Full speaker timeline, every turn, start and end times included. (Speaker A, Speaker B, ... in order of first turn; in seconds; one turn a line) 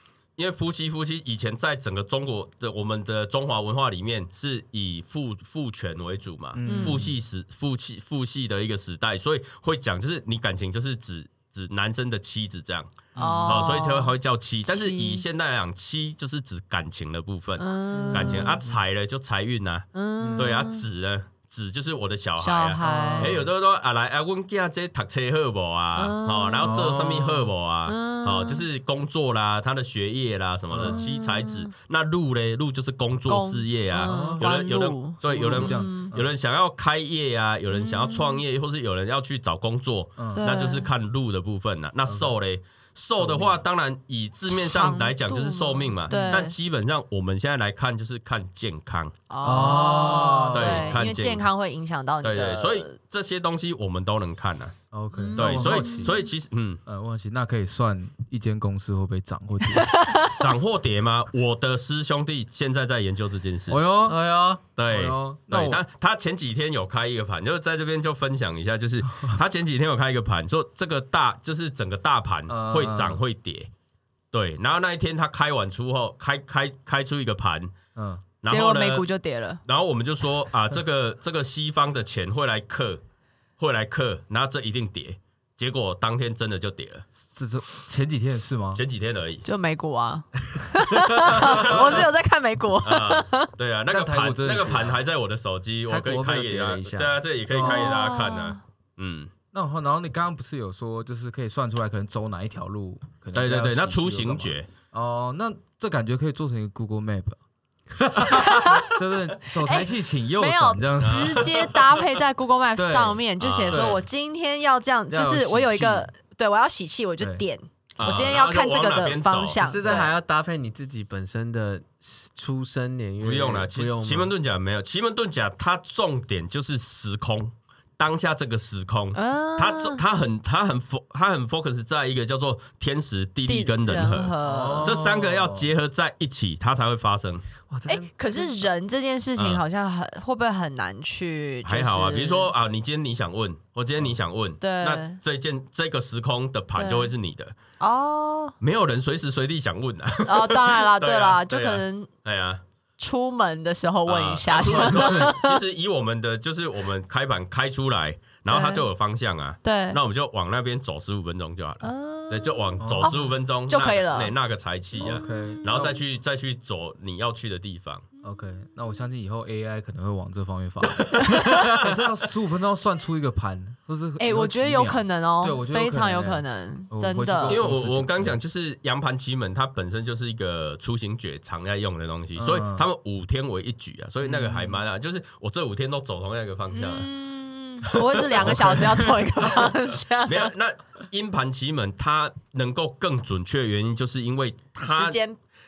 Speaker A: 0.4-13.0
Speaker B: 6.5-7.1
Speaker C: 6.7-7.0
Speaker B: 13.2-13.7
Speaker C: 13.2-14.1
Speaker A: 13.5-49.1
Speaker C: 14.7-15.2
Speaker C: 17.6-18.6
Speaker D: 18.0-18.4
Speaker B: 18.1-18.5
Speaker C: 19.9-20.9
Speaker B: 20.2-20.6
Speaker C: 22.4-23.4
Speaker B: 22.8-23.5
Speaker C: 26.0-26.7
Speaker B: 26.6-27.5
Speaker C: 27.9-28.6
Speaker B: 30.7-31.0
Speaker C: 30.8-31.7
Speaker C: 33.3-36.1
Speaker B: 34.0-34.5
Speaker B: 35.2-36.3
Speaker C: 37.7-38.4
Speaker B: 40.2-40.5
Speaker C: 40.4-40.9
Speaker B: 42.1-42.3
Speaker B: 43.2-43.6
Speaker C: 44.5-46.5
Speaker B: 46.1-46.4
Speaker C: 49.3-53.0
Speaker B: 49.4-51.0
Speaker D: 49.5-50.5
Speaker A: 50.5-51.5
Speaker A: 52.2-54.7
Speaker B: 54.9-56.2
Speaker C: 55.1-56.3
Speaker A: 55.4-56.8
Speaker B: 56.9-60.0
Speaker C: 59.7-60.4
Speaker A: 60.3-63.8
Speaker B: 63.7-64.2
Speaker D: 64.1-64.6
Speaker A: 64.8-73.7
Speaker B: 64.8-65.8
Speaker B: 72.5-73.2
Speaker A: 74.3-77.7
Speaker B: 78.0-78.2
Speaker A: 78.4-79.1
Speaker C: 78.5-79.6
Speaker A: 79.7-83.0
Speaker A: 83.6-87.1
Speaker B: 87.2-88.8
Speaker A: 88.8-89.5
Speaker C: 89.5-93.5
Speaker A: 91.3-92.1
Speaker A: 92.8-99.3
Speaker B: 93.9-95.0
Speaker D: 95.9-97.2
Speaker B: 97.5-97.9
Speaker C: 97.6-98.6
Speaker B: 99.5-107.4
Speaker A: 103.3-104.7
Speaker B: 108.2-111.7
Speaker C: 108.3-108.9
Speaker C: 109.6-120.1
Speaker A: 111.0-111.8
Speaker B: 112.8-114.0
Speaker A: 113.4-114.0
Speaker B: 115.1-116.1
Speaker A: 118.0-120.1
Speaker D: 119.6-124.3
Speaker A: 123.2-137.4
Speaker C: 129.1-130.0
Speaker C: 133.5-135.0
Speaker B: 134.4-135.7
Speaker D: 137.7-138.7
Speaker C: 137.9-142.5
Speaker A: 139.4-139.6
Speaker A: 141.7-147.6
Speaker C: 144.6-145.2
Speaker C: 146.8-147.1
Speaker C: 147.8-148.6
Speaker A: 148.6-152.6
Speaker C: 150.2-152.1
Speaker C: 153.0-155.6
Speaker A: 154.1-168.1
Speaker C: 158.5-158.8
Speaker C: 159.6-160.0
Speaker C: 161.8-164.3
Speaker B: 162.8-163.2
Speaker B: 165.0-166.0
Speaker C: 165.0-165.7
Speaker B: 168.2-178.4
Speaker D: 171.3-171.8
Speaker C: 174.2-177.6
Speaker A: 177.5-187.1
Speaker B: 182.4-182.9
Speaker B: 184.2-184.8
Speaker C: 186.7-190.5
Speaker A: 187.9-195.2
Speaker C: 194.8-195.4